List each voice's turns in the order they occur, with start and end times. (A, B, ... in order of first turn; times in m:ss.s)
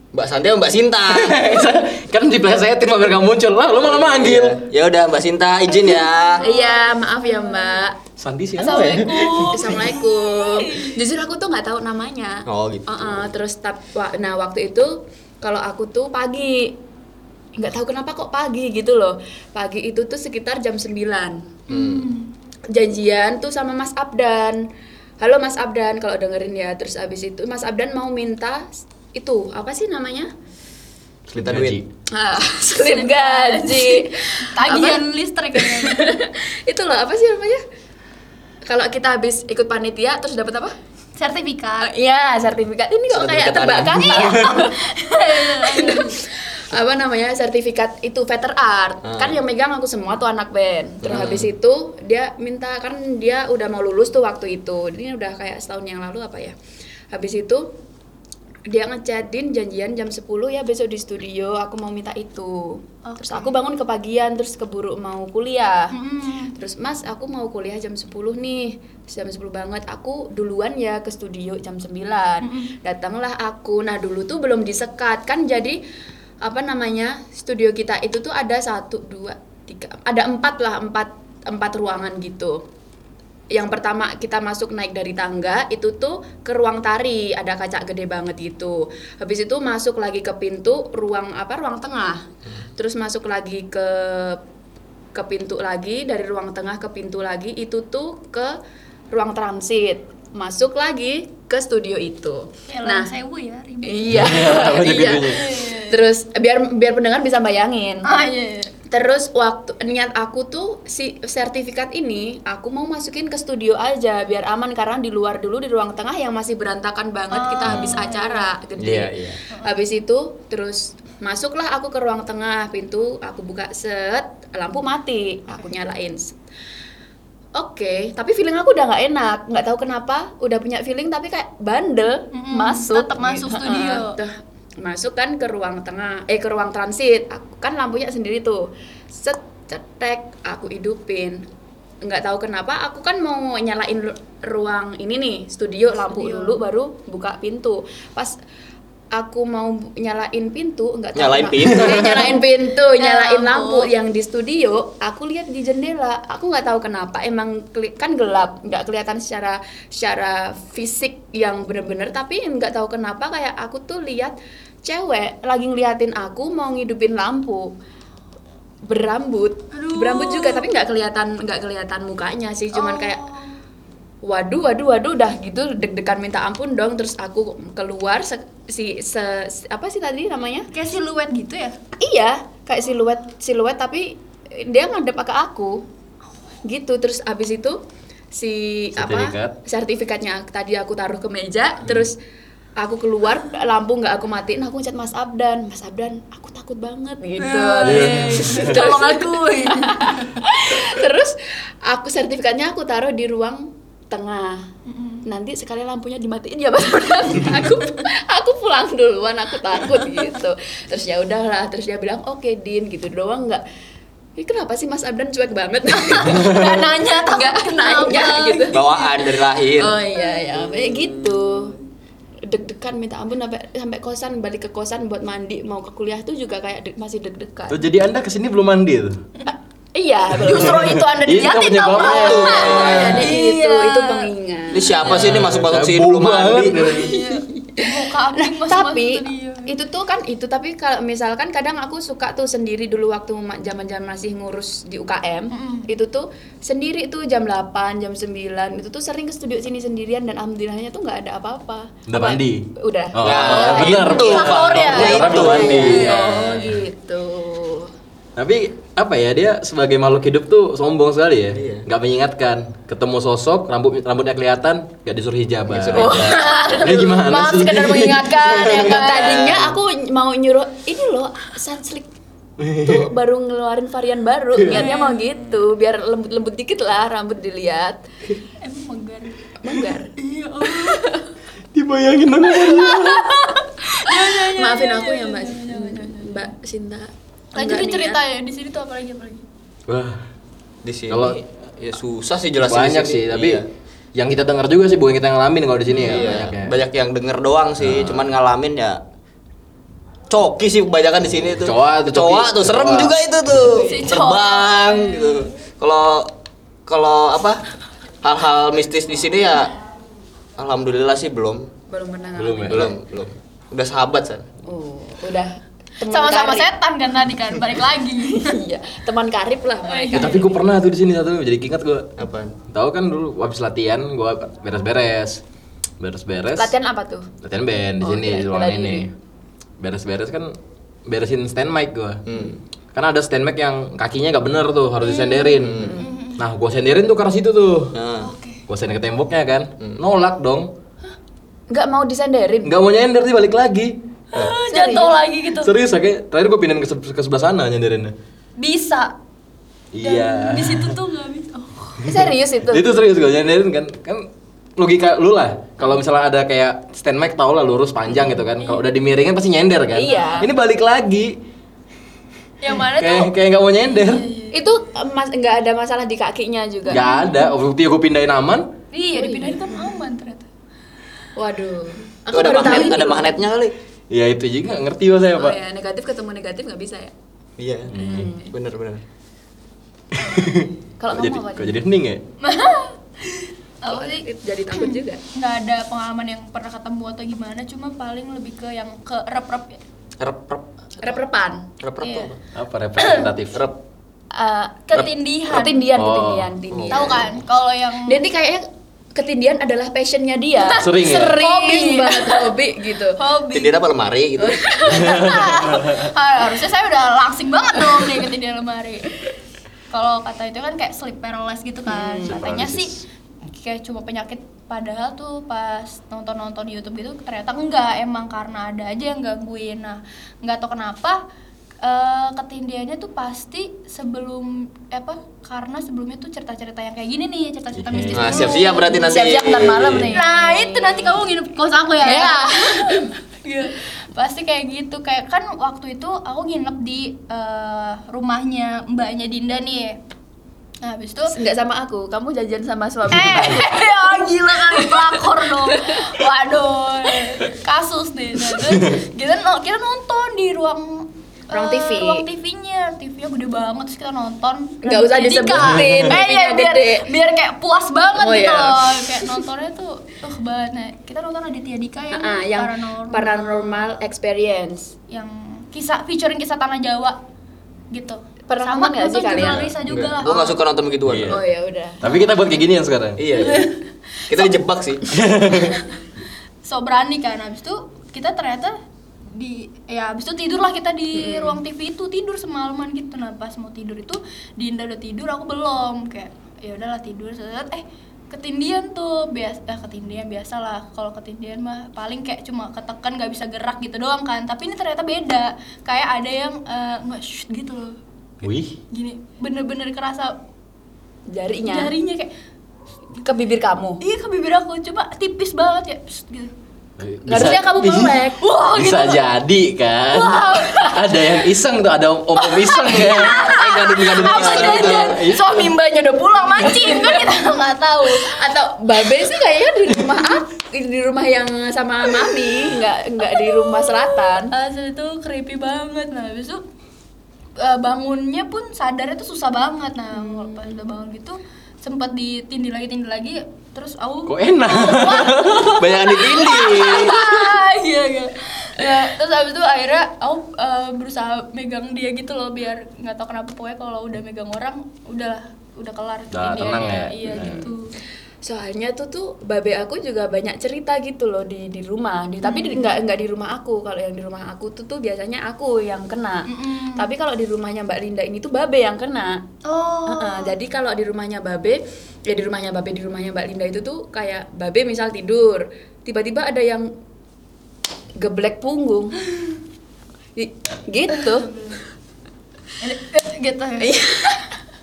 0:00.1-0:01.4 A
0:01.1-0:04.6 B
0:03.8-0:06.4 A
0:06.4-0:07.8 C
0:06.4-0:08.0 D
0:08.2-0:09.8 B
0:08.6-0:11.0 C
0:09.5-0:16.8 D
0:12.5-0:13.3 A
0:17.6-0:21.5 D
0:21.7-0:22.1 A
0:21.7-0:22.3 C
0:22.7-0:24.7 D
0:25.2-0:30.3 D
0:31.3-0:31.8 A
0:31.3-0:31.8 B
0:32.1-0:37.6 D
0:32.8-0:36.2 C
0:38.7-0:40.7 D
0:41.2-0:41.9 C
0:41.8-0:56.6 D
0:43.1-0:44.4 A
0:44.1-0:46.2 C
0:49.0-0:49.4 A
0:51.0-0:51.5 A
0:57.1-0:57.7 D
0:58.7-1:06.0 D
1:03.0-1:03.5 C
1:05.9-1:06.6 C
1:06.6-1:15.8 D
1:12.4-1:12.7 C
1:16.4-1:22.6 D
1:23.5-1:34.4 D
1:35.1-1:38.6 D
1:39.1-1:43.1 D
1:42.7-1:46.0 C
1:43.8-1:48.1 D
1:44.1-1:45.5 B
1:48.0-1:48.7 C
1:48.9-2:06.4 D
1:57.3-1:58.5 C
1:57.7-1:58.0 A
1:58.8-1:59.4 A
1:59.5-1:59.8 C
2:07.6-2:21.5 D
2:12.3-2:14.2 C
2:22.0-2:28.4 D
2:26.0-2:26.6 C
2:29.1-2:47.8 D
2:31.2-2:32.4 A
2:33.0-2:33.9 C
2:48.8-2:53.2 D
2:49.7-2:50.7 C
2:52.7-2:53.6 C
2:54.2-3:00.7 D
3:00.7-3:01.8 C
3:02.0-3:05.8 D
3:06.6-3:07.8 D
3:08.3-3:12.2 D
3:09.0-3:09.6 B
3:12.8-3:24.7 D
3:17.4-3:20.4 C
3:17.8-3:18.8 B
3:24.9-3:25.2 C
3:25.2-3:33.6 D
3:34.4-3:38.8 D
3:36.0-3:39.4 C
3:38.7-3:40.0 A
3:39.8-3:41.8 D
3:40.6-3:41.4 A
3:42.4-3:47.8 D
3:47.7-3:49.2 B
3:49.5-3:55.1 D
3:50.3-3:53.3 B
3:50.5-3:54.3 C
3:52.0-3:53.3 A
3:54.7-3:57.0 A
3:55.0-3:57.2 B
3:56.8-3:59.7 C
3:56.9-4:17.9 D
4:05.5-4:05.9 C
4:12.1-4:16.8 B
4:13.2-4:16.2 A
4:13.5-4:16.2 C
4:18.4-4:29.6 B
4:21.5-4:21.8 A
4:25.7-4:26.4 A
4:25.9-4:32.1 D
4:26.2-4:29.4 C
4:29.2-4:29.7 A
4:32.6-4:33.1 B
4:32.8-4:38.0 D
4:34.6-4:34.8 B
4:34.7-4:35.4 C
4:38.6-4:39.4 C
4:39.6-4:40.1 D
4:40.2-4:41.0 C
4:40.6-4:41.2 D
4:41.7-4:43.3 B
4:42.7-4:46.5 C
4:44.0-4:48.2 D
4:47.5-4:49.4 C
4:49.9-4:50.2 B
4:50.8-4:53.7 A
4:51.1-4:51.4 B
4:52.6-4:53.6 B
4:54.2-4:56.8 B
4:55.9-4:56.4 C
4:55.9-4:59.0 A
4:57.8-4:58.3 B
5:00.3-5:06.3 A
5:01.5-5:03.5 B
5:03.6-5:05.5 C
5:03.6-5:04.2 D
5:06.9-5:07.6 A
5:08.2-5:09.7 A
5:10.6-5:11.7 A
5:11.9-5:12.9 D
5:12.4-5:13.0 B
5:12.7-5:14.5 A
5:14.6-5:16.7 D
5:16.1-5:18.6 C
5:18.2-5:20.6 D
5:19.9-5:20.4 C
5:20.1-5:22.2 B
5:22.2-5:22.6 A
5:22.7-5:25.4 B
5:26.0-5:26.7 B
5:26.6-5:27.3 D
5:27.4-5:29.1 B
5:28.0-5:29.1 D
5:29.8-5:32.2 B
5:32.3-5:32.6 A
5:32.9-5:38.0 B
5:35.0-5:36.4 C
5:35.6-5:36.0 A
5:35.8-5:36.2 D
5:37.9-5:38.3 A
5:38.2-5:38.6 C
5:38.7-5:40.7 B
5:41.7-5:42.7 D
5:42.6-5:44.0 B
5:44.3-5:45.7 C
5:44.7-5:45.2 D
5:45.6-5:48.1 B
5:48.6-5:49.1 C
5:49.9-5:51.0 B
5:50.0-5:52.0 C
5:52.0-6:01.4 B
5:52.0-5:52.9 D
5:58.6-5:58.9 C
5:59.9-6:00.5 D
6:02.6-6:03.3 C
6:02.9-6:04.3 B
6:04.0-6:04.6 C
6:04.5-6:07.0 D
6:06.9-6:08.7 B
6:06.9-6:07.6 C
6:08.9-6:10.5 C
6:09.1-6:09.8 D
6:11.4-6:13.4 D
6:12.3-6:13.8 A
6:12.5-6:13.2 C
6:14.1-6:15.6 B
6:15.4-6:17.1 D
6:17.6-6:19.0 A
6:17.9-6:18.3 B
6:17.9-6:18.5 D
6:20.1-6:22.2 B
6:21.0-6:21.8 D
6:22.4-6:29.8 C
6:23.8-6:25.2 D
6:30.2-6:31.2 A
6:31.0-6:31.7 D
6:31.8-6:32.4 A
6:32.0-6:32.3 C
6:32.5-6:33.6 B
6:33.0-6:33.3 C
6:34.3-6:37.3 D
6:34.9-6:35.9 C
6:36.0-6:36.5 B
6:36.7-6:37.2 A
6:36.9-6:38.2 C
6:38.1-6:43.2 D
6:40.6-6:42.6 C
6:40.8-6:41.4 B
6:43.1-6:43.8 C
6:43.5-6:45.2 A
6:44.4-6:45.5 D
6:44.9-6:49.2 C
6:44.9-6:46.1 B
6:49.9-6:53.0 C
6:51.9-6:52.4 D
6:52.2-6:53.0 B
6:53.5-7:01.2 C
7:01.8-7:09.4 C
7:07.8-7:08.6 B
7:08.1-7:10.1 A
7:08.9-7:11.2 D
7:09.8-7:10.1 B
7:10.0-7:20.0 C
7:12.0-7:13.1 D
7:20.8-7:21.4 C
7:21.3-7:26.2 D
7:23.1-7:43.9 C
7:31.5-7:32.3 D
7:34.8-7:37.1 D
7:35.6-7:36.1 B
7:38.2-7:39.4 D
7:42.1-7:44.9 D
7:45.1-7:47.2 C
7:47.9-7:50.6 C
7:48.5-7:49.7 D
7:49.9-7:51.4 A
7:51.0-7:51.4 B
7:51.3-7:52.0 D
7:52.0-7:53.2 B
7:52.0-7:52.4 C
7:53.2-7:53.7 A
7:53.3-7:53.8 C
7:54.3-7:55.1 A
7:55.1-7:55.8 B
7:56.6-7:58.8 C
7:59.3-8:18.0 C
8:01.1-8:01.6 D
8:18.4-8:18.8 B
8:18.9-8:20.4 C
8:21.3-8:21.9 D
8:21.7-8:22.3 C
8:23.2-8:24.0 D
8:24.0-8:26.5 C
8:27.0-8:28.2 B
8:27.3-8:28.4 D
8:28.4-8:29.2 C
8:28.7-8:33.5 B
8:30.2-8:31.0 C
8:30.2-8:30.9 D
8:32.4-8:38.5 C
8:33.0-8:35.2 A
8:34.4-8:35.7 B
8:36.7-8:37.3 D
8:38.1-8:44.5 D
8:42.3-8:42.8 C
8:43.3-8:46.6 C
8:47.6-9:07.9 C
8:50.1-8:50.7 D
8:54.3-8:56.2 B
8:55.7-8:57.4 A
9:06.3-9:07.6 B
9:07.2-9:07.7 D
9:08.4-9:19.4 D
9:12.4-9:13.0 C
9:16.5-9:17.1 C
9:19.6-9:20.6 C
9:20.1-9:26.9 D
9:28.2-9:29.2 D
9:30.4-9:31.5 D
9:31.2-9:31.8 C
9:32.8-9:34.0 C
9:33.8-9:34.6 D